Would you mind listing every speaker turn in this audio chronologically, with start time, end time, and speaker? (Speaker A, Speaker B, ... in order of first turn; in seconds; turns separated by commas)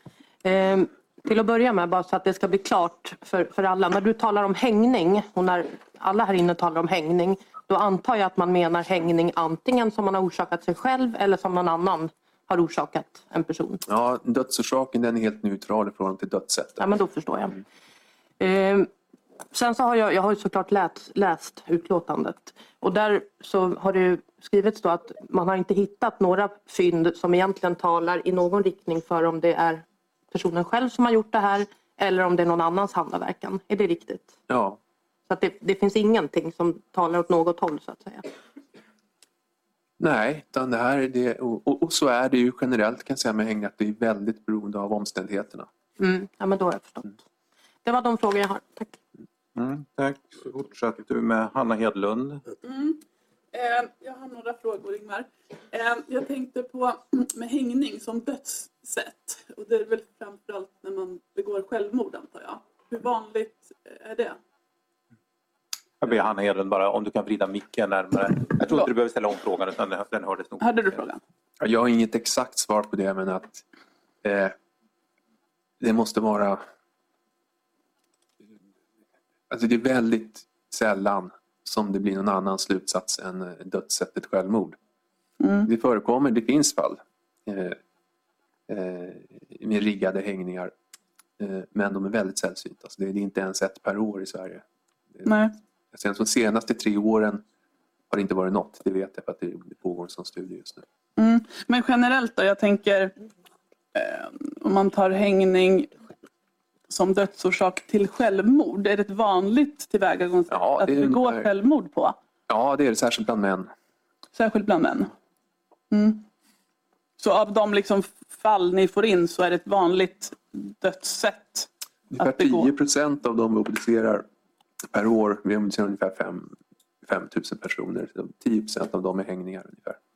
Speaker A: 0.4-13.8, Speaker B: 13.8-16.8, Speaker A: 16.8-17.6, Speaker A: 18.4-18.9, Speaker A: 19.5-34.4, Speaker B: 34.5-34.8, Speaker A: 35.3-38.3, Speaker B: 40.0-45.7, Speaker A: 46.0-47.1, Speaker A: 47.8-48.9, Speaker C: 49.5-52.4, Speaker D: 52.6-53.0, Speaker D: 53.5-64.4, Speaker C: 66.0-70.7, Speaker D: 70.6-71.2, Speaker B: 71.6-73.6, Speaker B: 74.2-74.5, Speaker B: 75.8-76.6, Speaker B: 79.5-84.8, Speaker D: 85.4-85.7, Speaker B: 85.6-87.8, Speaker B: 88.7-90.7, Speaker B: 91.4-94.6, Speaker D: 95.2-95.5, Speaker B: 95.9-97.4, Speaker B: 98.1-100.8, Speaker D: 101.2-103.1, Speaker D: 103.9-106.0, Speaker D: 106.9-112.2, Speaker B: 110.5-111.5, Speaker B: 112.5-113.7, Speaker D: 114.3-115.1, Speaker D: 115.9-116.2, Speaker D: 117.2-121.7, Speaker B: 122.1-124.2, Speaker D: 122.2-122.7, Speaker B: 124.9-130.0